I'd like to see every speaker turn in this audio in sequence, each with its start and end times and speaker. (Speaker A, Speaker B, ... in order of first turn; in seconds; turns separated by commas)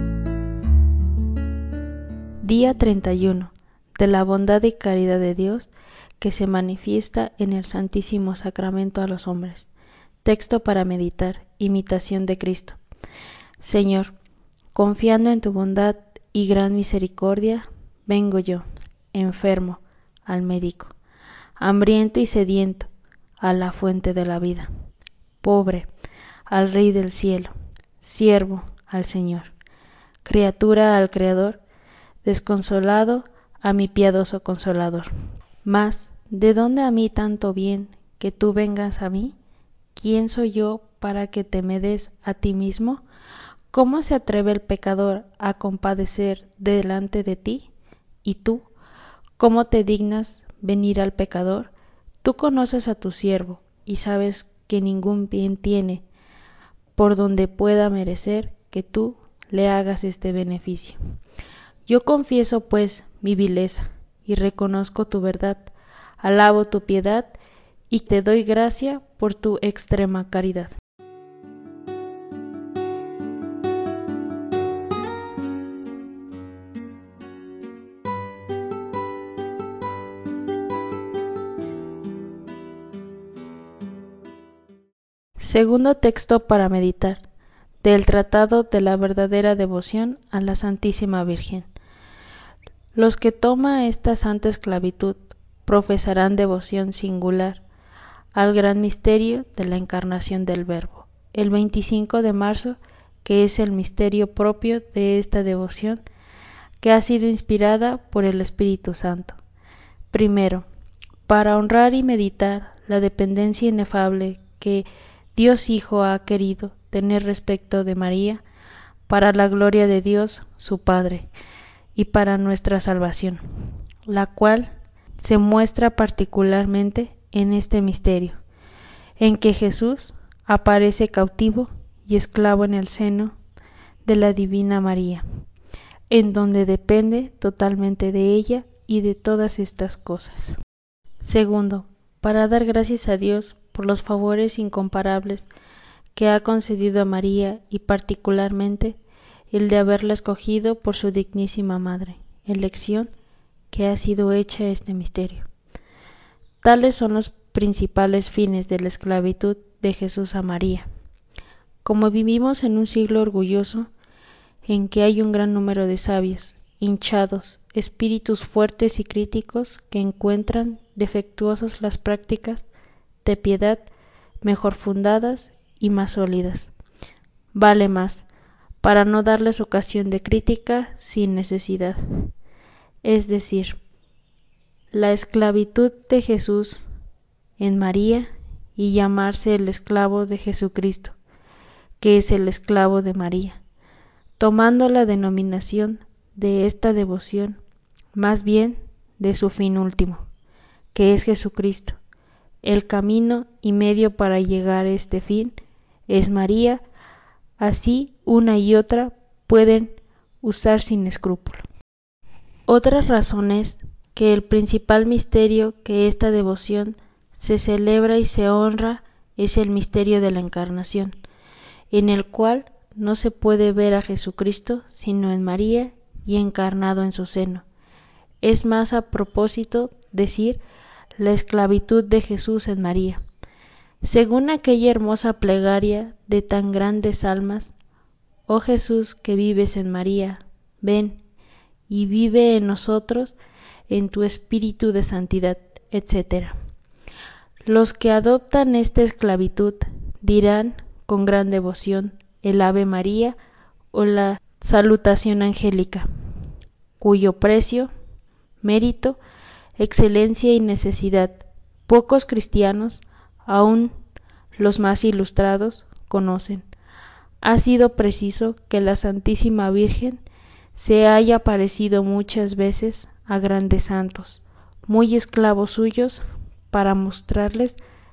Speaker A: 2.4-9.7, Speaker A: 10.2-12.8, Speaker A: 13.6-14.1, Speaker A: 14.8-20.9, Speaker A: 21.6-22.9, Speaker A: 23.4-24.7, Speaker A: 25.4-25.9, Speaker A: 26.5-29.5, Speaker A: 30.2-31.6, Speaker A: 32.2-35.1, Speaker A: 35.6-39.4, Speaker A: 40.0-43.0, Speaker A: 43.7-47.7, Speaker A: 48.2-48.7, Speaker A: 49.4-51.7, Speaker A: 52.2-56.0, Speaker A: 56.9-61.0, Speaker A: 61.9-67.4, Speaker A: 67.9-70.7, Speaker A: 85.4-87.2, Speaker A: 87.8-91.7, Speaker A: 92.9-97.6, Speaker A: 98.3-106.0, Speaker A: 106.8-109.4, Speaker A: 110.1-110.7, Speaker A: 111.3-118.4, Speaker A: 119.1-121.3, Speaker A: 121.9-123.4, Speaker A: 124.1-128.4, Speaker A: 129.2-133.3, Speaker A: 134.0-135.2, Speaker A: 136.1-140.6, Speaker A: 141.2-145.5, Speaker A: 146.1-149.0, Speaker A: 149.5-153.1, Speaker A: 153.7-155.5, Speaker A: 156.6-160.9, Speaker A: 161.8-163.9, Speaker A: 164.7-172.7, Speaker A: 173.2-173.9, Speaker A: 174.4-176.7, Speaker A: 177.5-178.3, Speaker A: 178.8-182.0, Speaker A: 183.0-183.8, Speaker A: 184.9-186.8, Speaker A: 187.6-191.2, Speaker A: 192.0-193.6, Speaker A: 194.4-197.6, Speaker A: 198.1-200.2, Speaker A: 200.9-202.0, Speaker A: 202.6-205.6, Speaker A: 206.1-206.8, Speaker A: 207.6-211.7, Speaker A: 212.7-221.2, Speaker A: 221.9-227.6, Speaker A: 228.4-230.6, Speaker A: 231.2-233.2, Speaker A: 234.0-237.8, Speaker A: 238.5-241.2, Speaker A: 241.9-243.4, Speaker A: 243.9-246.6, Speaker A: 247.6-253.4, Speaker A: 253.9-256.1, Speaker A: 257.0-257.9, Speaker A: 258.6-259.2, Speaker A: 259.8-263.9, Speaker A: 264.6-266.7, Speaker A: 267.4-270.2, Speaker A: 270.8-277.8